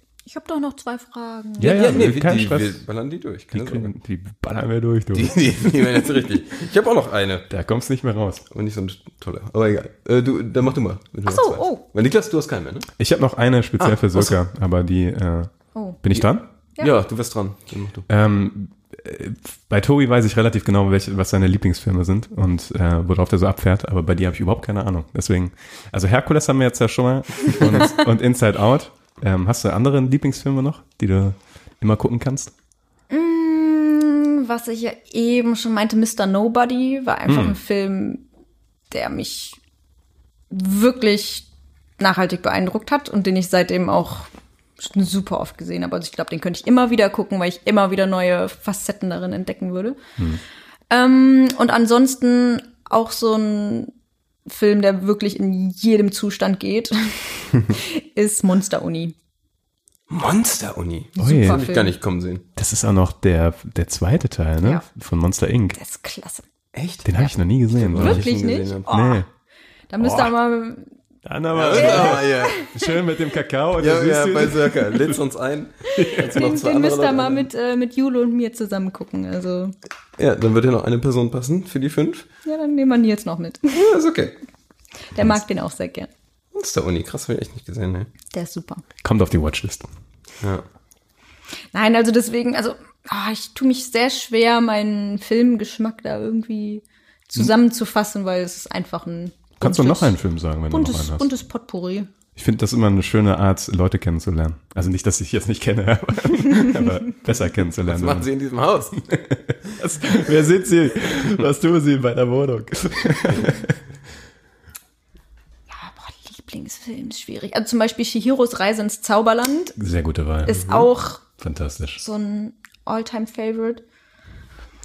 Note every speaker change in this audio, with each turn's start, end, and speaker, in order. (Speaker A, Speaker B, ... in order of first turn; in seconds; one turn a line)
Speaker A: 0.3-1.9
Speaker B: 1.6-2.8
Speaker C: 1.6-3.9
Speaker B: 3.5-5.7
Speaker C: 5.1-7.5
Speaker B: 7.5-8.4
Speaker C: 8.5-12.9
Speaker A: 11.2-11.8
Speaker B: 13.0-15.5
Speaker C: 13.8-14.3
Speaker B: 16.0-16.4
Speaker C: 16.1-18.1
Speaker B: 18.1-32.5
Speaker A: 33.1-38.2
Speaker B: 37.3-37.5
Speaker A: 38.9-39.6
Speaker A: 40.5-41.5
Speaker A: 42.0-50.0
Speaker A: 50.9-53.9
Speaker A: 54.5-59.1
Speaker C: 60.1-62.4
Speaker A: 61.1-61.9
Speaker B: 61.2-61.6
Speaker B: 62.5-65.8
Speaker A: 65.7-66.5
Speaker C: 66.7-67.2
Speaker B: 67.0-68.3
Speaker A: 67.2-69.3
Speaker C: 67.8-68.9
Speaker B: 68.8-69.2
Speaker A: 69.9-70.9
Speaker B: 70.0-70.3
Speaker B: 71.2-75.2
Speaker C: 71.5-72.6
Speaker A: 71.7-72.9
Speaker C: 73.8-77.5
Speaker A: 75.9-79.7
Speaker B: 76.0-76.2
Speaker C: 80.2-82.2
Speaker A: 82.4-83.8
Speaker C: 83.7-84.3
Speaker A: 85.1-86.1
Speaker C: 86.5-88.1
Speaker A: 88.3-88.8
Speaker B: 89.0-89.9
Speaker A: 91.7-100.2
Speaker B: 99.6-101.3
Speaker A: 100.7-102.1
Speaker B: 102.3-108.3
Speaker C: 107.8-109.2
Speaker B: 109.0-113.8
Speaker A: 115.7-119.8
Speaker B: 119.8-120.7
Speaker A: 120.4-121.2
Speaker C: 120.5-120.9
Speaker B: 121.4-122.0
Speaker A: 122.0-123.8